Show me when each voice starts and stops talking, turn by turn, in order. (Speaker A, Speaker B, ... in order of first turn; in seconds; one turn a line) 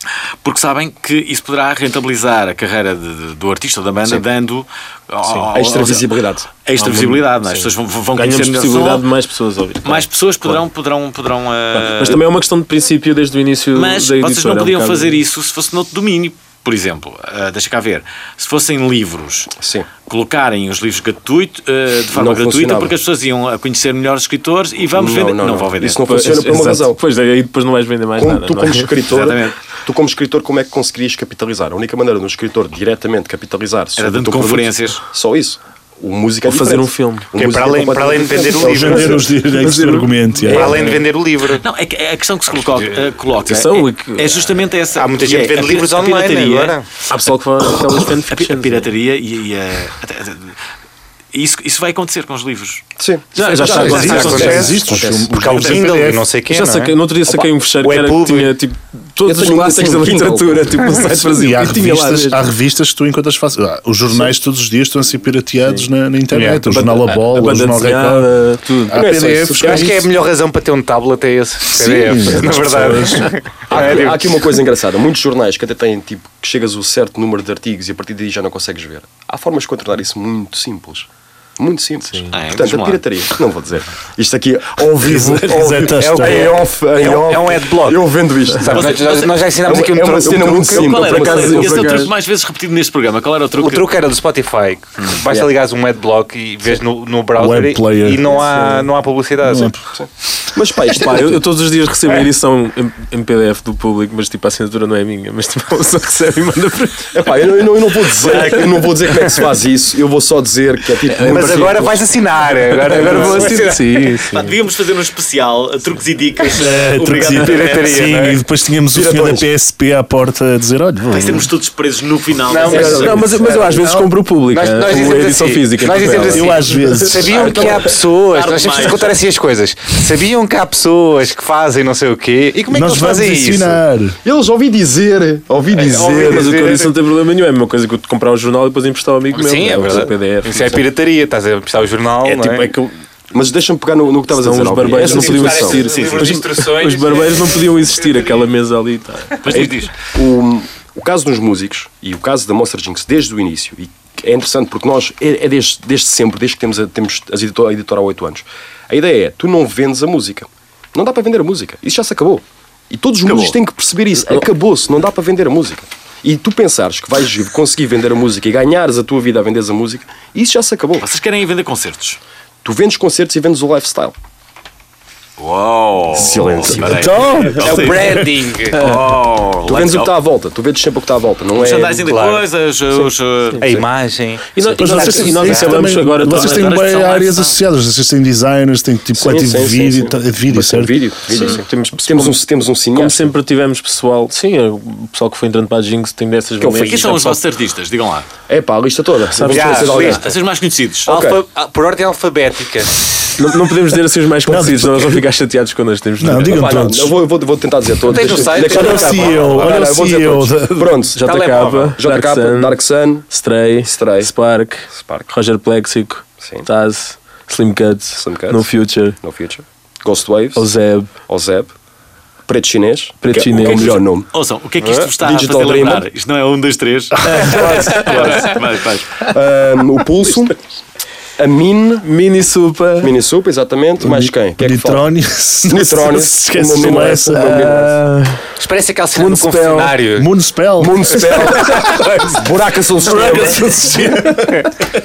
Speaker A: 0.4-9.1
Speaker B: 5.2-6.0
Speaker C: 5.5-6.5
Speaker B: 6.8-10.6
Speaker A: 9.8-12.2
Speaker B: 11.7-15.2
Speaker A: 13.7-19.5
Speaker C: 19.6-19.9
Speaker A: 20.1-26.1
Speaker C: 22.1-22.9
Speaker C: 24.9-27.0
Speaker B: 26.0-29.0
Speaker C: 28.2-39.4
Speaker A: 29.1-29.6
Speaker A: 34.0-35.0
Speaker B: 36.4-37.3
Speaker D: 37.4-39.2
Speaker E: 38.6-40.8
Speaker B: 39.5-41.0
Speaker D: 40.5-41.6
Speaker C: 40.5-41.0
Speaker A: 41.5-46.8
Speaker B: 43.4-44.5
Speaker D: 44.9-46.9
Speaker B: 47.1-48.9
Speaker A: 48.3-50.6
Speaker A: 51.3-52.9
Speaker C: 53.0-55.8
Speaker B: 53.4-54.6
Speaker D: 53.6-56.9
Speaker E: 53.8-56.2
Speaker A: 53.8-54.7
Speaker B: 56.5-62.4
Speaker D: 57.8-58.5
Speaker C: 59.2-61.2
Speaker E: 61.1-68.3
Speaker D: 66.3-66.7
Speaker B: 66.7-69.2
Speaker E: 68.8-70.0
Speaker C: 69.0-70.0
Speaker D: 69.6-74.4
Speaker E: 71.8-73.3
Speaker C: 73.7-89.0
Speaker B: 82.1-82.4
Speaker A: 82.3-83.0
Speaker E: 85.0-86.5
Speaker D: 85.9-90.9
Speaker A: 88.7-89.4
Speaker C: 89.6-92.1
Speaker B: 90.2-92.1
Speaker A: 90.7-93.9
Speaker D: 93.6-99.8
Speaker E: 97.4-98.3
Speaker B: 98.3-98.9
Speaker E: 99.4-99.8
Speaker C: 99.9-101.4
Speaker B: 100.9-107.3
Speaker C: 107.1-112.0
Speaker A: 108.2-108.8
Speaker B: 108.2-108.5
Speaker B: 111.0-111.8
Speaker D: 111.2-114.2
Speaker B: 112.8-114.6
Speaker C: 113.0-113.4
Speaker A: 114.3-118.1
Speaker E: 116.5-121.4
Speaker D: 116.5-118.4
Speaker C: 118.9-119.5
Speaker B: 121.0-121.5
Speaker A: 121.1-123.3
Speaker D: 122.5-133.8
Speaker C: 122.6-123.8
Speaker B: 122.7-127.3
Speaker E: 126.3-127.9
Speaker A: 127.6-129.2
Speaker E: 132.7-134.2
Speaker C: 134.2-136.6
Speaker D: 135.7-136.9
Speaker B: 135.9-140.8
Speaker D: 139.3-142.7
Speaker B: 142.2-142.9
Speaker C: 143.3-145.8
Speaker B: 144.3-149.5
Speaker D: 144.9-148.5
Speaker A: 145.8-146.4
Speaker D: 149.4-149.7
Speaker A: 149.4-149.9
Speaker C: 149.5-171.1
Speaker A: 163.2-163.6
Speaker B: 164.2-164.4
Speaker A: 171.0-172.2
Speaker C: 172.6-174.1
Speaker A: 175.4-177.8
Speaker C: 176.1-177.4
Speaker E: 176.9-178.3
Speaker B: 177.0-177.9
Speaker D: 177.6-178.8
Speaker B: 178.7-179.1
Speaker A: 178.7-180.2
Speaker C: 179.6-182.1
Speaker A: 181.5-183.8
Speaker D: 182.1-182.4
Speaker B: 182.9-183.8
Speaker D: 183.6-185.9
Speaker B: 184.5-186.7
Speaker E: 184.8-191.0
Speaker A: 186.1-187.6
Speaker C: 189.1-193.3
Speaker B: 191.3-197.3
Speaker C: 196.6-197.4
Speaker A: 196.8-198.3
Speaker C: 198.5-200.3
Speaker B: 199.3-200.2
Speaker D: 199.4-200.3
Speaker A: 199.9-201.1
Speaker C: 201.1-201.4
Speaker D: 201.1-203.3
Speaker B: 203.4-206.9
Speaker E: 204.4-205.2
Speaker E: 206.2-207.2
Speaker C: 206.3-211.2
Speaker D: 208.1-209.8
Speaker B: 208.3-208.9
Speaker E: 208.7-211.0
Speaker B: 211.1-219.2
Speaker D: 211.2-212.0
Speaker C: 212.0-213.3
Speaker C: 213.8-214.3
Speaker C: 214.9-215.3
Speaker C: 216.4-216.7
Speaker C: 218.2-220.7
Speaker B: 220.5-221.1
Speaker C: 221.2-221.7
Speaker C: 222.5-224.3
Speaker B: 223.2-224.0
Speaker A: 223.6-229.2
Speaker C: 225.2-226.0
Speaker B: 227.2-228.4
Speaker C: 227.3-228.6
Speaker D: 227.5-227.8
Speaker C: 229.2-230.6
Speaker C: 231.4-232.1
Speaker B: 232.0-233.1
Speaker C: 233.0-235.1
Speaker E: 234.0-237.7
Speaker C: 235.7-238.0
Speaker B: 237.2-238.5
Speaker D: 238.6-240.3
Speaker B: 239.1-240.0
Speaker E: 240.1-241.2
Speaker C: 240.8-243.7
Speaker D: 241.4-242.4
Speaker E: 243.0-244.7